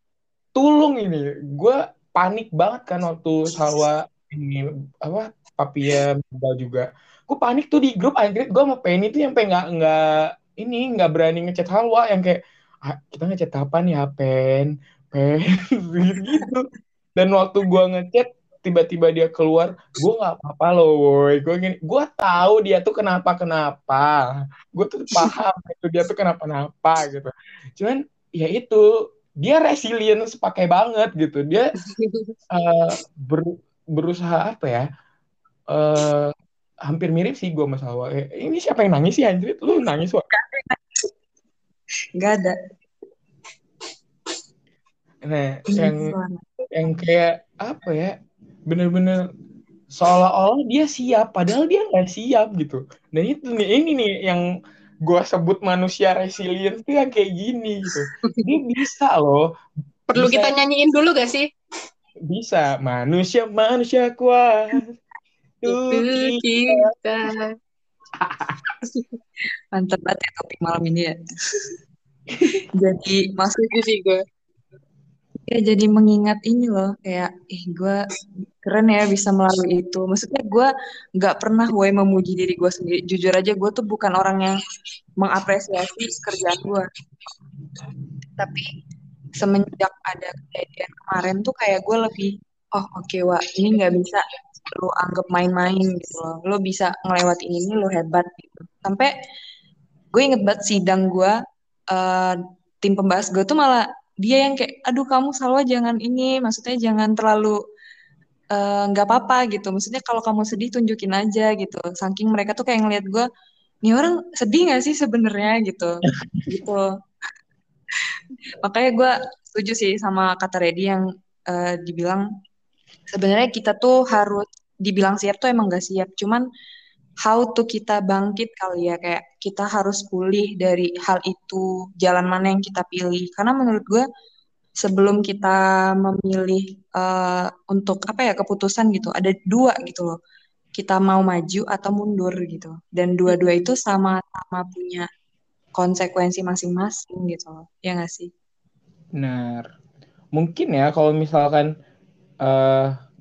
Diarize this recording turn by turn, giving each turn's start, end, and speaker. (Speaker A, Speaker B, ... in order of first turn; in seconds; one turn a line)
Speaker A: 0.6-28.9
Speaker A: 29.4-31.7
Speaker B: 31.9-32.3
Speaker A: 32.5-34.9
Speaker A: 35.7-36.3
Speaker A: 36.9-40.2
Speaker C: 40.3-41.1
Speaker C: 42.2-42.5
Speaker A: 45.3-46.1
Speaker C: 45.7-46.5
Speaker A: 46.7-48.1
Speaker A: 48.7-49.2
Speaker A: 49.9-54.4
Speaker A: 55.0-59.5
Speaker B: 60.1-61.5
Speaker A: 60.1-60.5
Speaker A: 62.3-64.9
Speaker A: 65.6-66.9
Speaker B: 65.7-67.5
Speaker A: 68.2-68.6
Speaker C: 69.7-71.1
Speaker C: 72.7-73.8
Speaker B: 73.7-74.2
Speaker C: 75.5-78.0
Speaker C: 78.6-84.5
Speaker C: 85.2-86.9
Speaker C: 88.4-88.7
Speaker C: 89.4-99.1
Speaker C: 100.1-101.4
Speaker C: 101.9-107.5
Speaker C: 108.5-113.2
Speaker C: 113.8-115.9
Speaker C: 116.5-116.9
Speaker C: 118.6-122.2
Speaker C: 123.1-126.4
Speaker C: 127.2-134.0
Speaker C: 134.8-140.2
Speaker C: 140.8-145.1
Speaker C: 145.8-148.3
Speaker A: 149.2-149.7
Speaker A: 150.3-151.7
Speaker A: 152.4-152.9